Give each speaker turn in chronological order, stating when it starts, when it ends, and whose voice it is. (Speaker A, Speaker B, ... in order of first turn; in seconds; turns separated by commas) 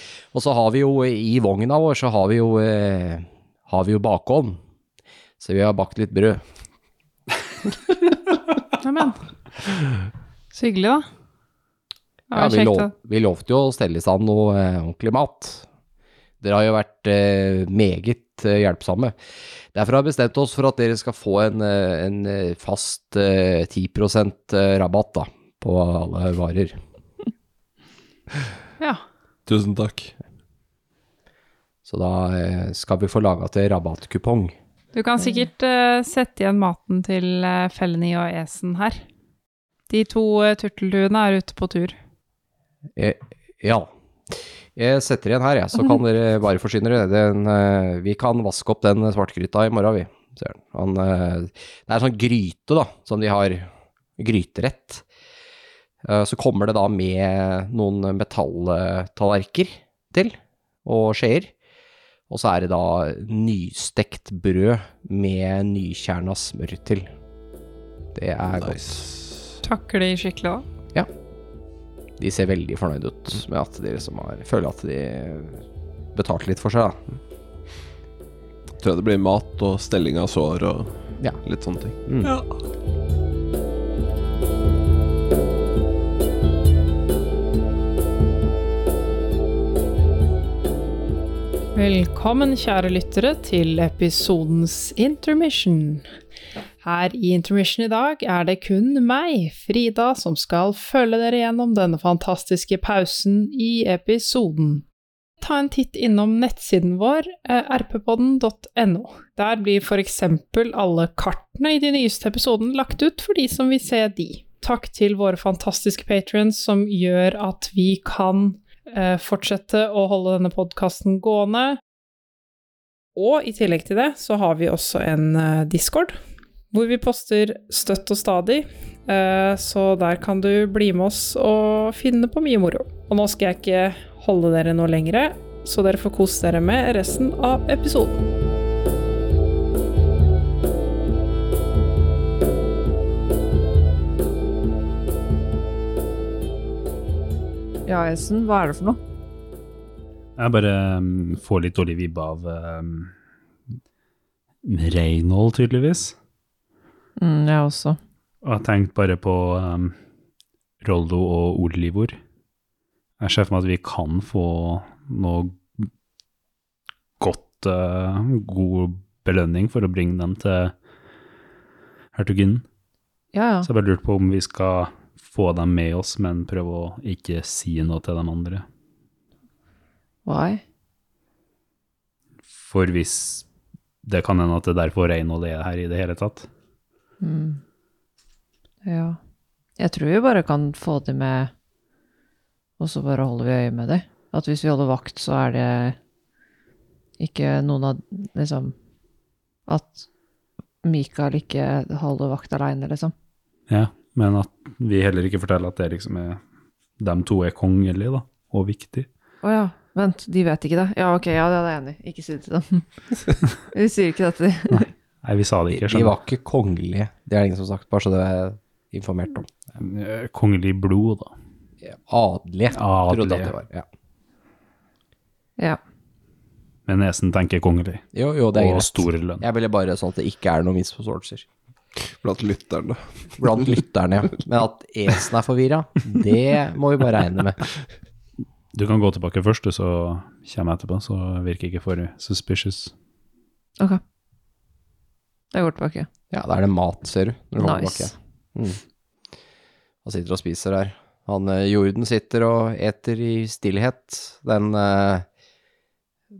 Speaker A: 0.3-4.6, Speaker A: 5.4-6.4, Speaker B: 8.8-9.2, Speaker B: 10.5-11.0, Speaker B: 12.3-12.9, Speaker A: 12.3-15.7, Speaker A: 16.4-19.1, Speaker A: 19.7-26.8, Speaker C: 29.4-30.1, Speaker A: 31.9-34.5, Speaker B: 34.9-39.0, Speaker B: 39.9-41.9, Speaker A: 43.0-55.0, Speaker A: 56.0-61.5, Speaker A: 62.3-67.1, Speaker A: 68.1-69.0, Speaker C: 68.5-69.6, Speaker B: 69.6-70.6, Speaker A: 72.2-75.6, Speaker A: 76.1-77.0, Speaker C: 78.8-82.0, Speaker A: 82.0-82.3, Speaker B: 91.7-96.0, Speaker B: 96.8-104.8, Speaker B: 105.4-121.8, Speaker B: 123.1-126.2, Speaker B: 126.7-138.2, Speaker D: 147.8-149.0, Speaker E: 150.4-153.1, Speaker E: 154.6-156.1, Speaker D: 157.2-158.0, Speaker E: 158.4-159.9, Speaker E: 160.8-162.2, Speaker E: 163.2-165.9, Speaker E: 167.2-170.7, Speaker E: 172.1-172.6, Speaker D: 173.3-173.7, Speaker E: 173.6-178.6, Speaker D: 180.2-180.6, Speaker E: 182.6-183.4, Speaker E: 184.0-186.5, Speaker D: 187.2-187.6, Speaker D: 188.8-189.2, Speaker D: 189.8-191.5, Speaker D: 192.8-196.0, Speaker D: 197.2-198.7, Speaker D: 199.7-200.0, Speaker D: 200.8-203.1, Speaker E: 203.7-206.4, Speaker E: 207.0-209.1, Speaker D: 209.4-212.9, Speaker D: 213.7-214.9, Speaker E: 214.7-216.1, Speaker A: 215.7-219.5, Speaker E: 219.8-221.3, Speaker A: 221.8-223.8, Speaker E: 222.7-223.5, Speaker E: 226.9-229.4, Speaker A: 228.1-231.4, Speaker C: 232.0-233.0, Speaker A: 233.4-237.6, Speaker E: 238.7-242.9, Speaker D: 245.5-246.1, Speaker A: 246.3-248.8, Speaker D: 247.6-248.1, Speaker A: 250.0-255.2